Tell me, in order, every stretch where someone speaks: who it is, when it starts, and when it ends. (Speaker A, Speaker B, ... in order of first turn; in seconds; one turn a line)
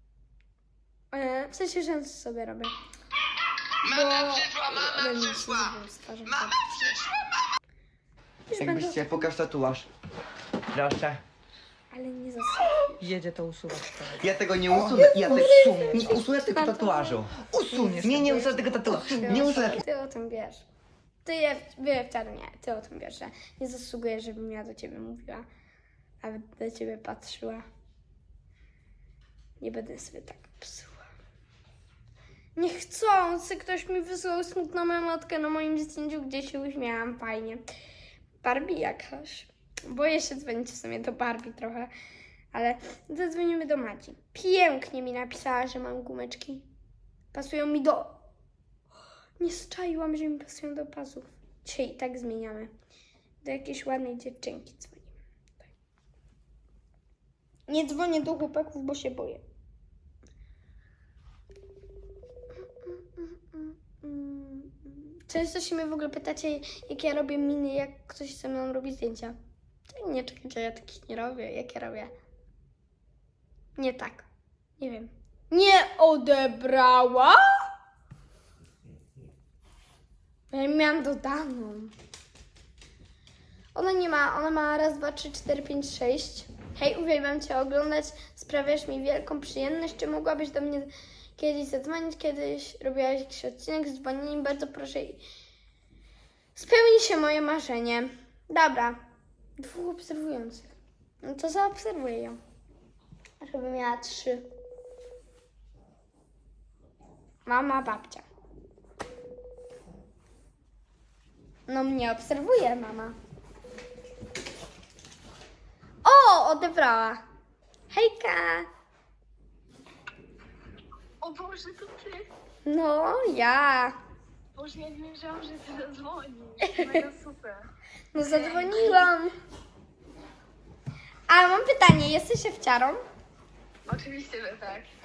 Speaker A: 1.1-2.7
Speaker A: 3.8-6.6
Speaker B: 3.8-7.3
Speaker A: 8.5-9.3
Speaker B: 8.6-9.9
Speaker B: 10.7-11.2
Speaker A: 11.9-13.0
Speaker C: 13.0-14.2
Speaker B: 14.1-19.8
Speaker A: 14.7-17.2
Speaker C: 15.0-15.5
Speaker C: 17.7-19.2
Speaker A: 18.0-20.6
Speaker A: 21.2-25.5
Speaker A: 26.2-27.7
Speaker A: 29.6-31.1
Speaker A: 32.5-37.6
Speaker A: 38.4-41.9
Speaker A: 42.5-46.7
Speaker A: 47.3-48.2
Speaker A: 49.4-52.7
Speaker A: 53.4-55.6
Speaker A: 57.7-59.4
Speaker A: 62.8-69.4
Speaker A: 69.9-72.1
Speaker A: 73.8-74.3
Speaker A: 74.8-77.7
Speaker A: 80.5-81.9
Speaker A: 83.7-95.2
Speaker A: 96.5-99.0
Speaker A: 99.6-102.4
Speaker A: 103.4-104.5
Speaker A: 107.5-108.2
Speaker A: 111.7-113.2
Speaker A: 116.0-117.2
Speaker A: 117.9-118.7
Speaker D: 121.2-122.3
Speaker A: 122.6-124.0
Speaker D: 124.5-127.7
Speaker A: 126.6-127.0
Speaker A: 128.1-129.3
Speaker D: 128.2-129.1
Speaker A: 131.3-133.0
Speaker D: 133.9-134.9